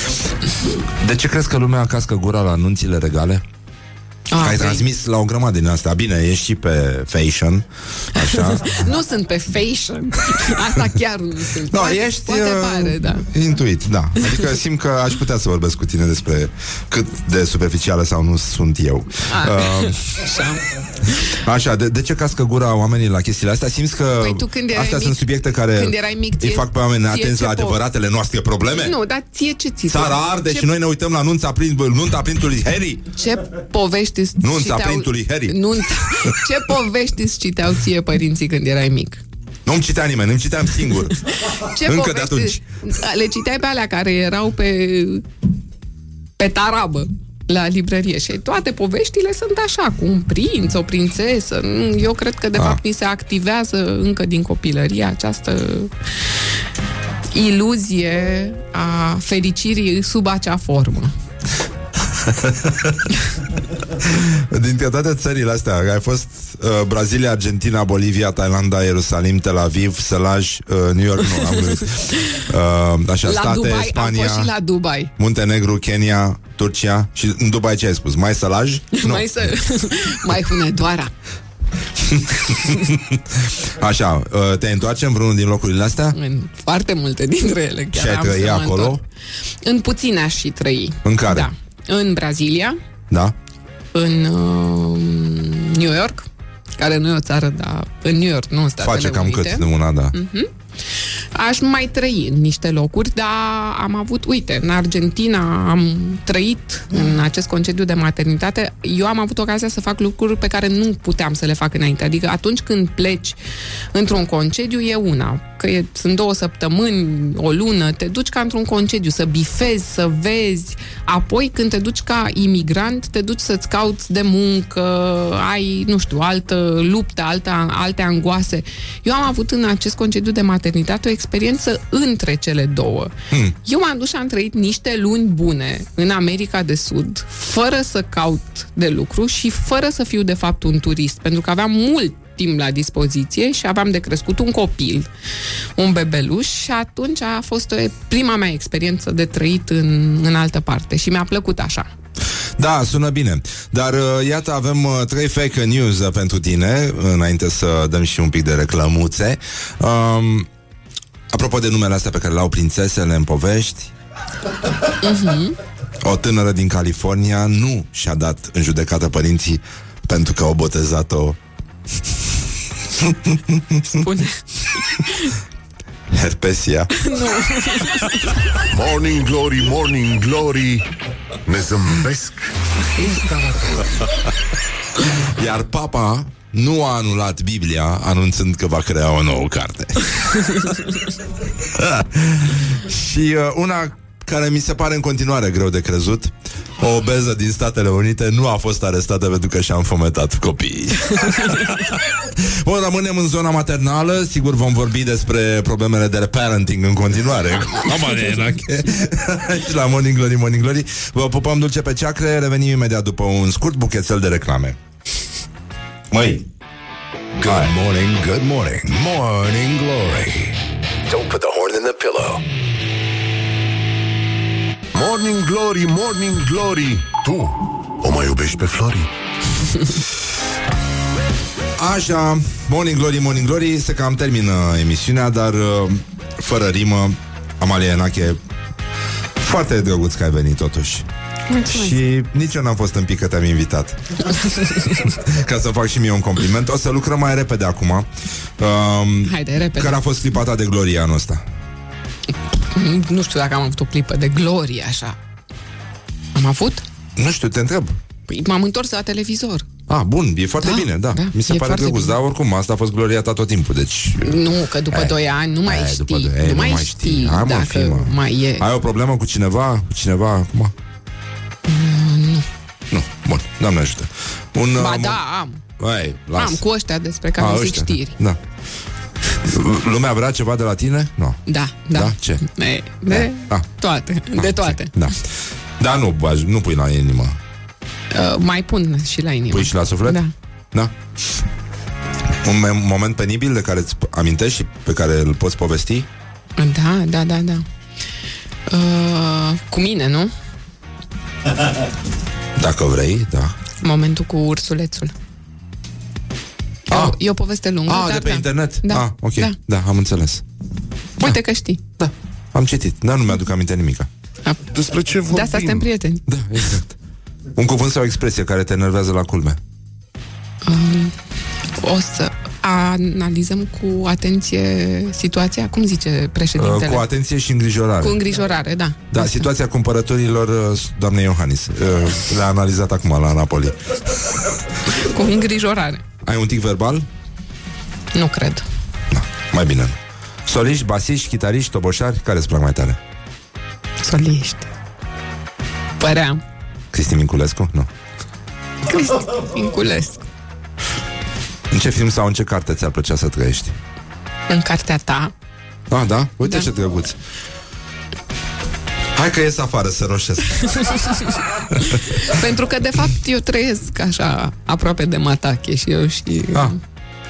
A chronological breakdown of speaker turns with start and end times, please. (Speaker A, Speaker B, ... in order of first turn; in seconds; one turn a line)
Speaker A: 1.0-3.4
Speaker B: 4.3-4.8
Speaker A: 4.4-8.9
Speaker B: 8.2-13.3
Speaker A: 11.7-20.3
Speaker B: 19.2-21.3
Speaker A: 21.1-28.9
Speaker B: 24.2-27.8
Speaker B: 28.8-30.7
Speaker A: 29.9-33.1
Speaker B: 33.1-39.2
Speaker A: 34.4-36.4
Speaker A: 39.6-42.6
Speaker B: 41.2-45.2
Speaker B: 46.4-55.9
Speaker B: 57.3-61.1
Speaker A: 62.1-63.0
Speaker A: 63.9-74.5
Speaker B: 71.5-72.3
Speaker B: 73.2-75.1
Speaker A: 75.2-79.5
Speaker B: 78.9-81.1
Speaker A: 82.0-86.2
Speaker B: 86.1-89.0
Speaker A: 87.9-89.0
Speaker B: 89.6-92.8
Speaker A: 91.0-91.5
Speaker A: 93.1-93.3
Speaker B: 93.9-113.4
Speaker A: 98.8-100.1
Speaker B: 113.9-133.1
Speaker B: 133.6-145.1
Speaker B: 145.8-151.9
Speaker A: 152.6-160.5
Speaker A: 161.3-163.9
Speaker B: 165.0-165.6
Speaker A: 166.0-171.4
Speaker A: 173.0-174.0
Speaker B: 173.9-175.4
Speaker A: 176.1-177.1
Speaker B: 176.9-178.4
Speaker C: 178.6-180.9
Speaker C: 181.4-184.2
Speaker A: 185.1-190.6
Speaker A: 191.6-214.8
Speaker A: 216.1-216.4
Speaker D: 217.4-222.4
Speaker A: 217.4-217.7
Speaker C: 224.9-229.1
Speaker A: 231.8-238.4
Speaker A: 239.4-241.1
Speaker B: 241.5-242.0
Speaker A: 241.6-244.3
Speaker B: 244.3-245.0
Speaker A: 245.0-251.4
Speaker B: 249.2-250.0
Speaker B: 252.3-255.2
Speaker B: 256.3-256.8
Speaker A: 257.1-258.0
Speaker B: 258.3-259.6
Speaker A: 259.9-270.7
Speaker B: 260.6-262.1
Speaker B: 264.2-268.6
Speaker B: 271.6-272.5
Speaker A: 272.9-275.2
Speaker B: 274.8-275.6
Speaker A: 275.8-276.6
Speaker B: 276.4-278.1
Speaker A: 277.4-278.4
Speaker A: 279.4-281.4
Speaker B: 281.4-285.1
Speaker A: 281.9-282.4
Speaker A: 283.1-283.6
Speaker A: 284.3-285.2
Speaker A: 285.8-287.4
Speaker B: 288.1-290.3
Speaker A: 289.5-290.2
Speaker A: 292.4-296.1
Speaker B: 296.6-297.6
Speaker B: 298.7-300.3
Speaker A: 302.6-303.6
Speaker B: 303.8-305.1
Speaker B: 306.9-309.5
Speaker A: 306.9-307.2
Speaker A: 307.9-310.4
Speaker B: 311.2-311.8
Speaker A: 312.0-314.1
Speaker C: 314.7-315.8
Speaker B: 315.3-316.3
Speaker A: 316.3-316.9
Speaker A: 317.5-319.6
Speaker B: 320.6-321.1
Speaker B: 321.7-327.0
Speaker A: 326.6-328.2
Speaker B: 328.0-329.4
Speaker A: 329.1-334.4
Speaker B: 334.9-336.0
Speaker A: 336.2-337.1
Speaker B: 338.1-338.6
Speaker A: 339.1-343.0
Speaker B: 344.0-344.7
Speaker B: 346.0-346.4
Speaker A: 346.9-347.9
Speaker B: 348.9-350.2
Speaker A: 351.7-353.8
Speaker B: 354.5-355.3
Speaker A: 355.9-357.2
Speaker A: 359.1-362.3
Speaker B: 360.6-366.8